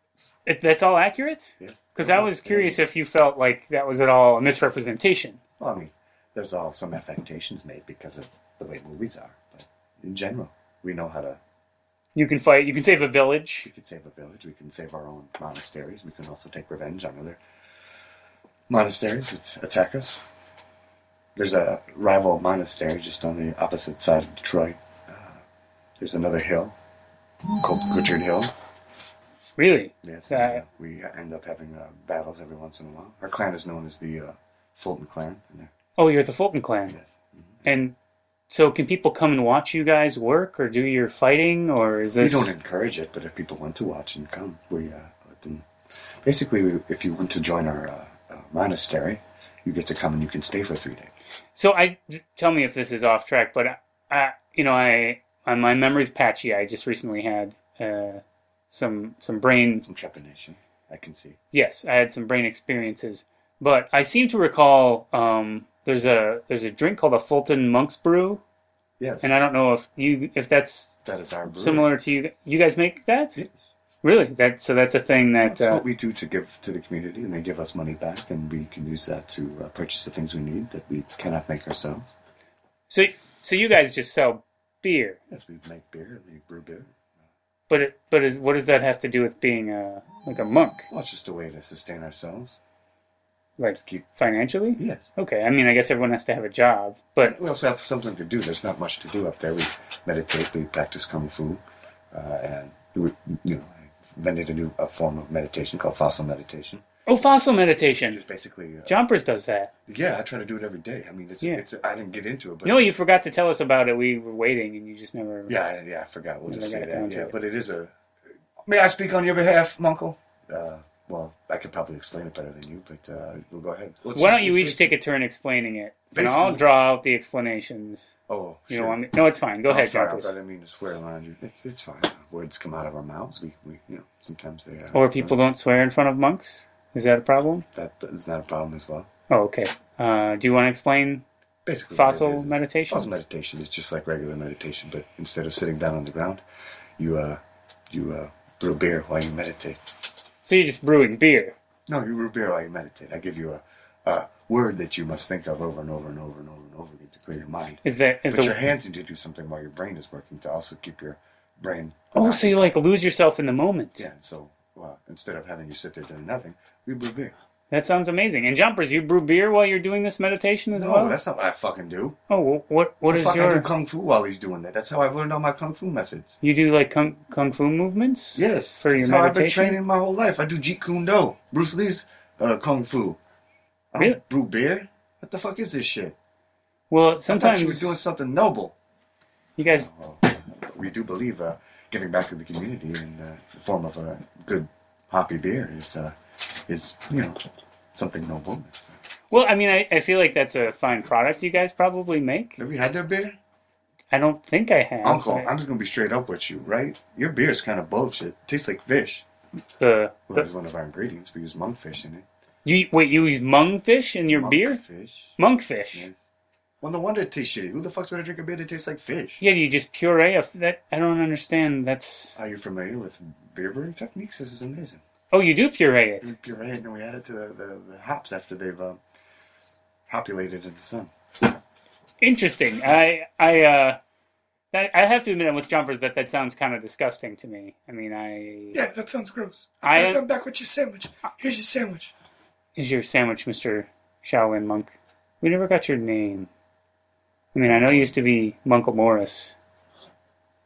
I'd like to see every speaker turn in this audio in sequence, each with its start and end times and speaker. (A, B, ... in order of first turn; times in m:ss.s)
0:00.4-0:05.4 A
0:01.6-0:02.8 B
0:05.6-0:11.4 B
0:12.1-0:13.7 A
0:13.6-0:17.4 B
0:18.7-0:20.3 B
0:21.4-0:25.4 B
0:26.0-0:26.8 B
0:27.6-0:28.5 B
0:29.6-0:30.6 A
0:30.0-0:35.7 B
0:36.0-0:37.0 A
0:36.9-0:37.6 B
0:37.6-0:38.0 A
0:38.5-0:42.5 A
0:42.2-0:45.7 B
0:46.2-0:51.1 B
0:51.5-0:59.8 A
0:59.8-1:01.4 B
1:01.5-1:08.4 A
1:09.0-1:09.3 B
1:09.2-1:13.4 A
1:11.0-1:11.9 B
1:13.4-1:13.7 B
1:14.0-1:15.8 A
1:15.4-1:22.1 B
1:22.9-1:25.2 A
1:25.3-1:26.9 B
1:27.7-1:30.9 A
1:30.9-1:32.6 B
1:33.6-1:37.4 A
1:33.7-1:34.0 B
1:34.8-1:35.1 B
1:37.2-1:41.6 B
1:42.1-1:46.8 B
1:47.1-1:48.2 A
1:48.0-1:49.0 B
1:48.8-1:49.7 A
1:49.9-1:52.9 B
1:52.6-1:55.5 A
1:55.5-1:57.9 B
1:56.5-1:57.3 A
1:58.6-2:04.9 B
2:04.1-2:08.1 A
2:06.1-2:06.6 B
2:08.3-2:09.0 B
2:08.7-2:10.3 A
2:09.7-2:15.3 B
2:14.9-2:17.6 A
2:17.7-2:19.1 B
2:19.3-2:21.2 A
2:21.6-2:26.4 B
2:21.9-2:23.1 A
2:27.0-2:29.8 B
2:30.4-2:31.6 A
2:31.9-2:42.8 B
2:37.8-2:38.6 A
2:42.1-2:44.0 A
2:44.0-2:47.3 B
2:47.7-2:51.2 A
2:50.7-2:52.2 B
2:52.3-2:53.7 A
2:53.1-2:56.4 B
2:56.4-2:59.8 A
2:58.4-3:03.2 B
3:03.9-3:06.2 B
3:06.9-3:08.0 A
3:07.3-3:08.7 B
3:09.6-3:09.9 A
3:09.8-3:16.1 B
3:16.7-3:17.4 B
3:17.9-3:18.9 B
3:19.3-3:22.6 A
3:22.6-3:23.4 B
3:24.1-3:25.5 A
3:25.0-3:29.2 B
3:29.8-3:30.4 A
3:30.3-3:32.2 B
3:32.6-3:34.8 A
3:34.3-3:35.4 B
3:35.4-3:36.1 A
3:36.8-3:39.4 B
3:39.4-3:42.4 A
3:42.3-3:45.0 B
3:45.3-3:46.3 A
3:46.2-3:49.0 B
3:50.1-3:51.1 B
3:52.2-3:54.0 A
3:54.7-3:58.8 A
3:58.7-4:02.1 C
3:59.8-4:00.2 A
4:02.8-4:06.5 A
4:07.5-4:09.6 A
4:07.6-4:08.2 B